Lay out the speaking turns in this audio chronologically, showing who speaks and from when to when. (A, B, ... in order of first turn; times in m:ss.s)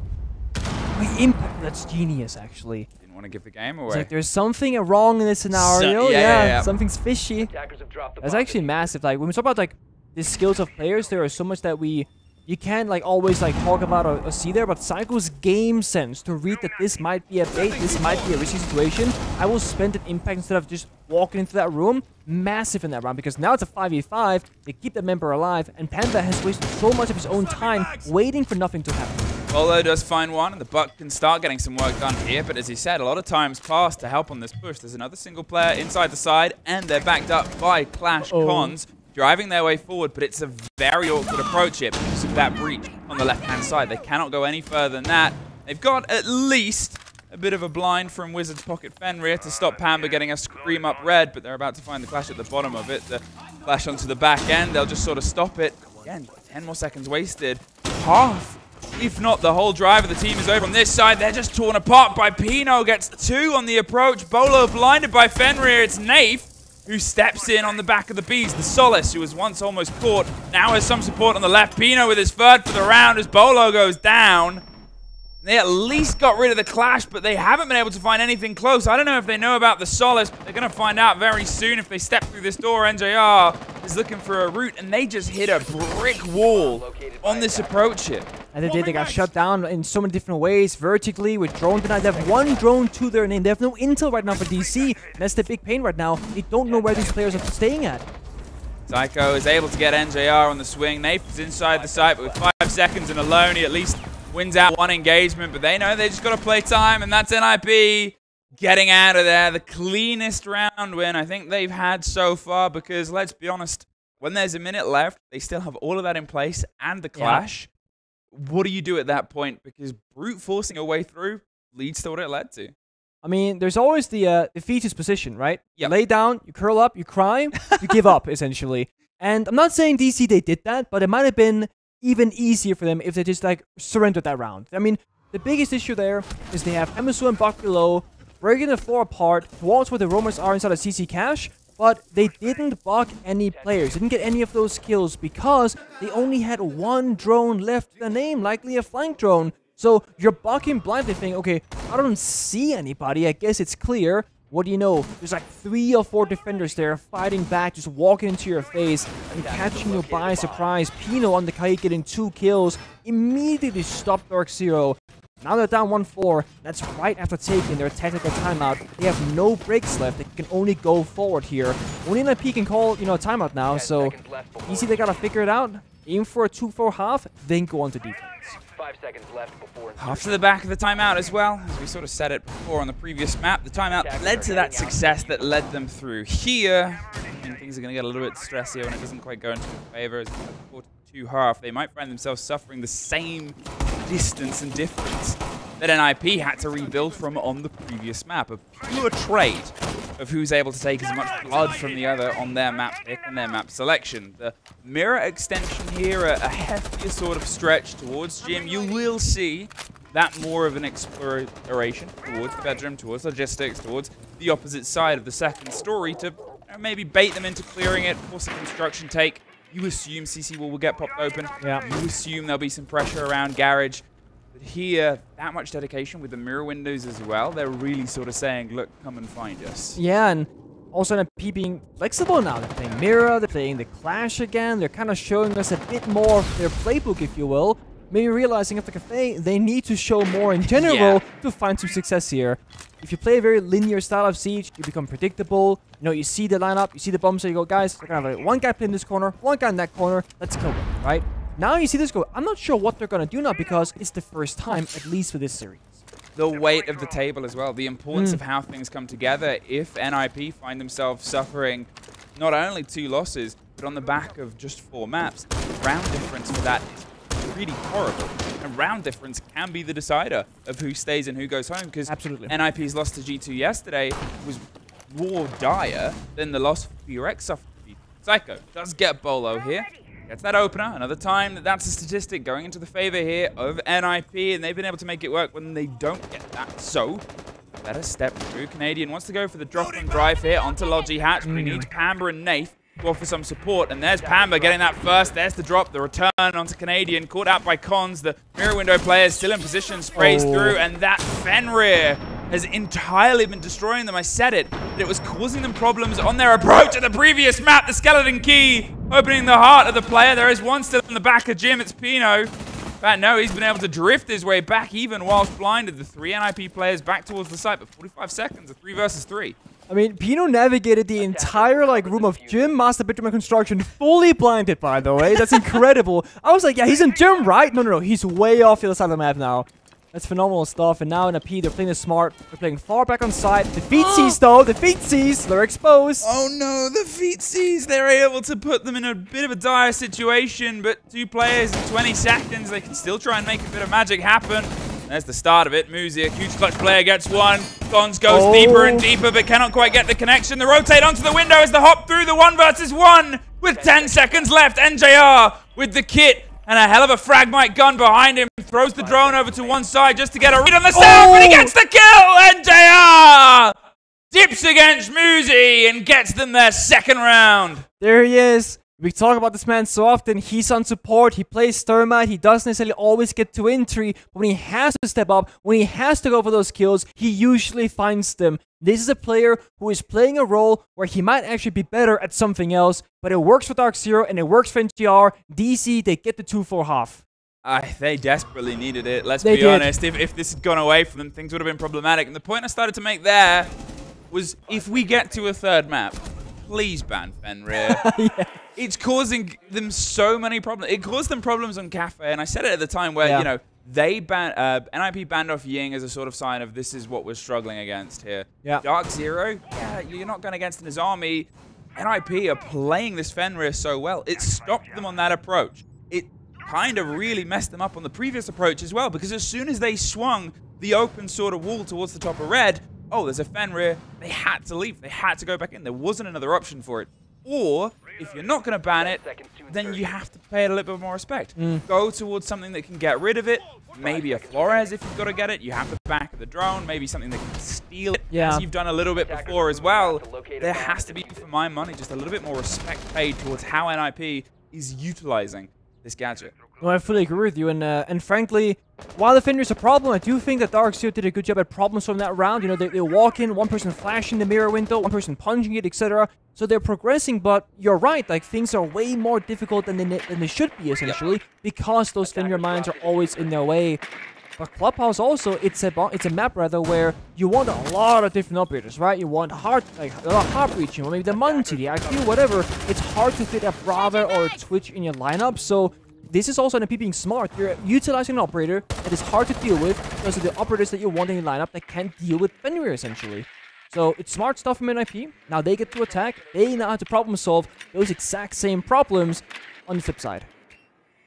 0:00.9-0:02.9 A
0:03.0-0:04.1 B
0:03.9-0:07.5 A
0:05.5-0:06.7 B
0:07.4-0:08.9 C
0:08.2-0:29.2 A
0:17.6-0:18.2 B
0:29.5-1:14.6 B
0:38.2-0:38.7 A
1:15.4-1:28.3 B
1:26.5-1:27.8 C
1:28.5-1:38.0 A
1:36.6-1:37.5 C
1:38.9-1:57.7 B
1:41.7-1:42.4 C
1:57.1-1:57.4 A
1:58.3-2:02.7 B
2:03.2-2:54.1 A
2:07.6-2:08.0 B
2:23.5-2:23.8 C
2:39.3-2:40.7 C
2:53.7-2:55.2 C
2:54.6-2:58.6 A
2:58.7-3:00.5 C
3:00.0-3:44.0 B
3:03.9-3:05.5 C
3:44.5-3:50.0 B
3:50.0-4:16.0 A
4:00.7-4:01.2 B
4:16.4-4:47.2 B
4:18.1-4:18.4 A
4:32.1-4:32.5 A
4:47.8-5:19.6 B
4:51.4-4:51.9 A
4:54.2-4:55.4 C
5:00.2-5:00.8 A
5:19.9-5:36.3 A
5:21.2-5:22.8 C
5:25.3-5:25.8 B
5:33.9-5:34.4 B
5:36.2-6:03.7 B
5:48.3-5:49.0 A
5:53.7-5:54.5 C
5:59.0-5:59.8 C
6:00.9-6:01.7 A
6:04.3-6:07.8 B
6:08.0-6:27.2 A
6:27.6-6:33.7 B
6:29.4-6:29.9 A
6:34.3-6:38.1 B
6:34.8-6:35.4 C
6:37.7-6:38.5 A
6:38.8-7:26.5 B
6:43.2-6:43.5 A
7:08.9-7:10.2 C
7:11.6-7:11.8 A
7:13.9-7:15.0 C
7:18.3-7:18.6 A
7:19.2-7:21.5 C
7:26.8-7:44.0 A
7:42.2-7:43.6 C
7:44.6-8:10.5 A
7:51.3-7:52.5 C